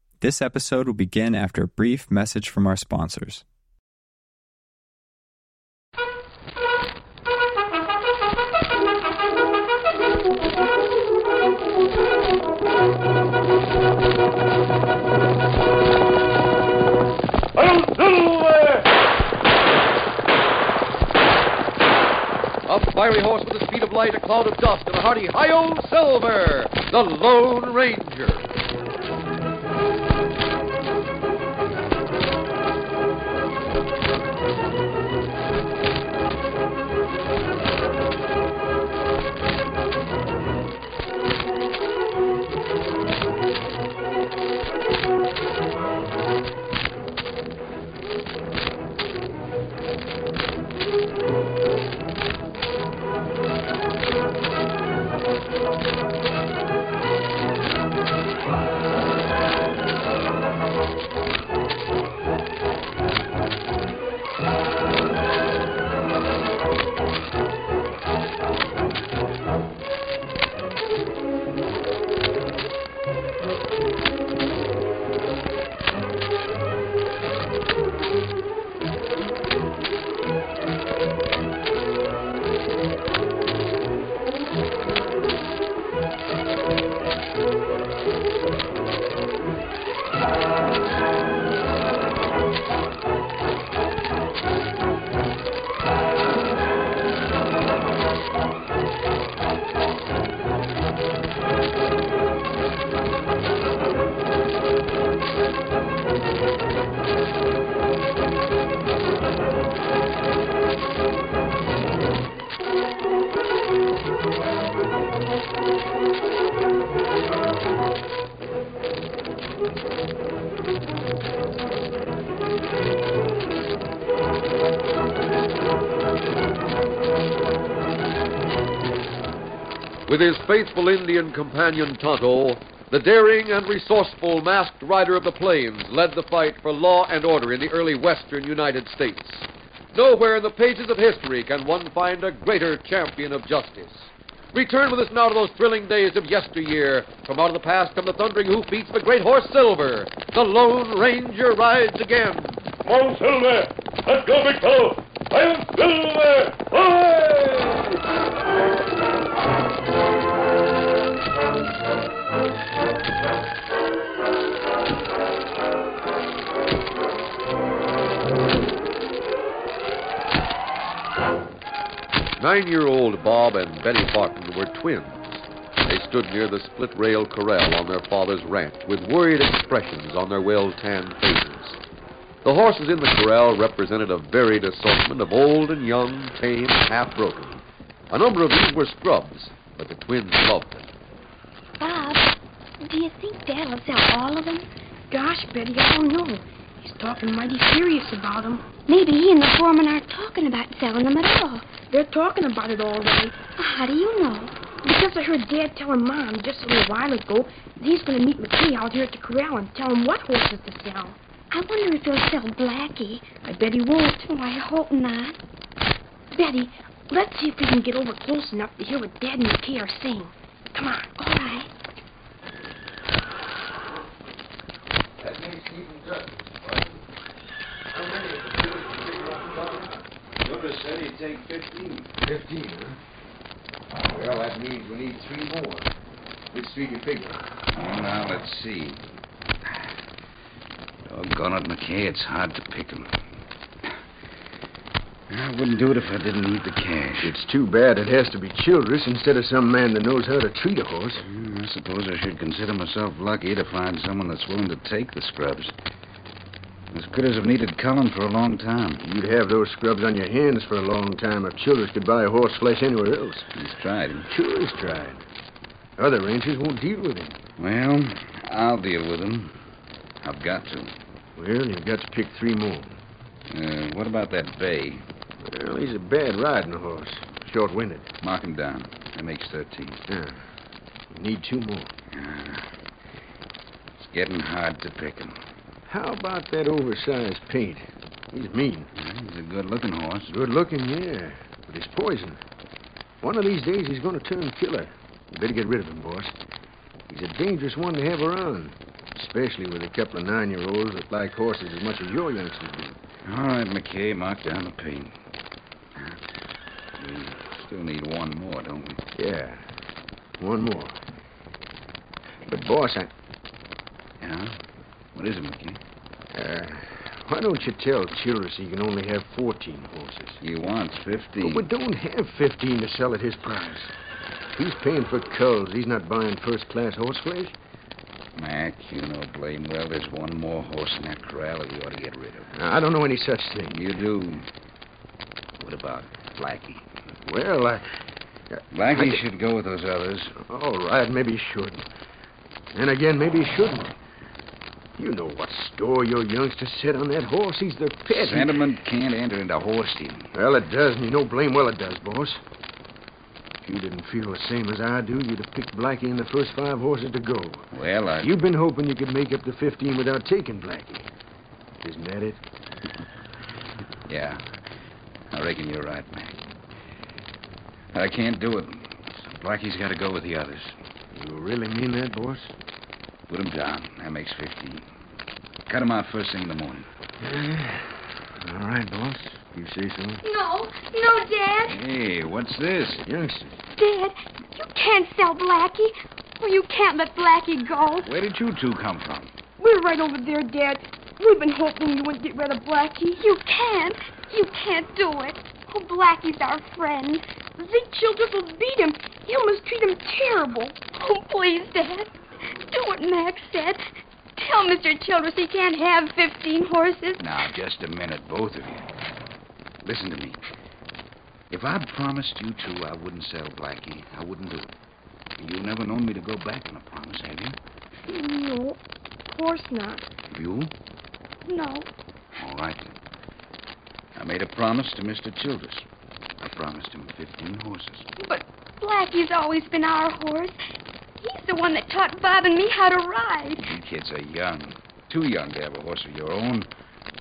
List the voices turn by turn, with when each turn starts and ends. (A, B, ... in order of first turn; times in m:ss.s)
0:00.2-0:03.4 A
0:17.6-0:18.8 B
0:22.6-0:28.4 C
2:10.0-2:32.7 C
2:32.8-2:37.9 B
2:52.4-3:01.8 C
3:02.4-3:10.9 C
3:11.8-3:12.3 D
3:12.8-3:14.7 D
3:15.1-3:18.7 E
3:18.9-3:21.7 D
3:21.9-3:23.4 E
3:23.6-3:24.5 D
3:24.8-3:31.2 E
3:31.5-3:33.3 D
3:33.4-3:34.2 E
3:34.2-3:35.4 D
3:36.3-3:41.1 E
3:41.2-3:41.7 D
3:45.2-3:46.8 F
3:47.9-3:50.0 F
3:50.4-3:52.1 G
3:52.2-3:53.0 F
3:54.1-3:55.9 F
3:56.5-3:57.4 F
3:57.7-3:59.0 G
4:01.0-4:03.2 G
4:05.3-4:07.3 G
4:07.2-4:11.2 F
4:11.2-4:15.7 G
4:16.9-4:19.0 G
4:19.0-4:23.4 F
4:23.5-4:24.3 G
4:24.3-4:25.2 F
4:26.0-4:27.4 F
4:27.6-4:29.5 G
4:30.2-4:30.9 G
4:31.4-4:33.0 F
4:33.5-4:35.0 G
4:35.4-4:38.1 F
4:38.2-4:40.0 G
4:40.1-4:40.3 F
4:41.1-4:41.9 F
4:42.1-4:42.6 G
4:44.0-4:45.4 G
4:45.9-4:48.9 F
4:49.0-4:50.3 G
4:50.3-4:52.4 F
4:53.2-4:56.3 F
4:57.1-5:03.0 F
5:03.2-5:05.2 G
5:05.9-5:06.2 G
5:07.0-5:09.0 G
5:09.2-5:09.6 F
5:10.4-5:10.9 F
5:12.5-5:13.1 F
5:14.2-5:14.6 G
5:15.1-5:15.8 G
5:16.3-5:20.4 F
5:20.4-5:21.6 G
5:21.4-5:23.9 F
5:24.6-5:27.5 F
5:28.4-5:32.5 G
5:32.5-5:33.8 F
5:33.7-5:34.4 G
5:35.6-5:36.8 G
5:37.2-5:37.8 F
5:38.5-5:39.2 F
5:38.7-5:40.4 G
5:40.4-5:41.8 F
5:42.7-5:43.9 F
5:45.0-5:48.6 F
5:48.1-5:50.3 G
5:50.3-5:52.4 F
5:53.6-5:57.7 F
5:57.7-5:58.3 G
5:58.2-6:01.1 F
6:01.8-6:02.4 F
6:04.1-6:04.4 G
6:05.3-6:06.4 G
6:07.9-6:10.7 G
6:11.1-6:12.5 F
6:13.3-6:14.8 G
6:15.7-6:16.9 G
6:17.2-6:20.2 F
6:20.2-6:21.8 D
6:21.6-6:23.0 G
6:23.0-6:23.5 F
6:23.8-6:28.1 D
6:28.0-6:29.3 G
6:29.6-6:33.2 E
6:33.2-6:37.2 D
6:37.6-6:40.8 E
6:40.9-6:42.1 D
6:42.7-6:43.8 D
6:44.4-6:47.2 D
6:47.2-6:48.8 G
6:49.8-6:50.4 G
6:51.5-6:54.7 G
6:55.4-6:57.6 G
6:58.1-6:58.8 E
6:59.3-7:00.0 E
7:00.3-7:00.7 G
7:01.4-7:01.9 D
7:02.4-7:02.9 G
7:04.2-7:05.8 G
7:06.4-7:08.1 G
7:08.2-7:10.6 D
7:11.2-7:13.7 D
7:13.6-7:16.7 G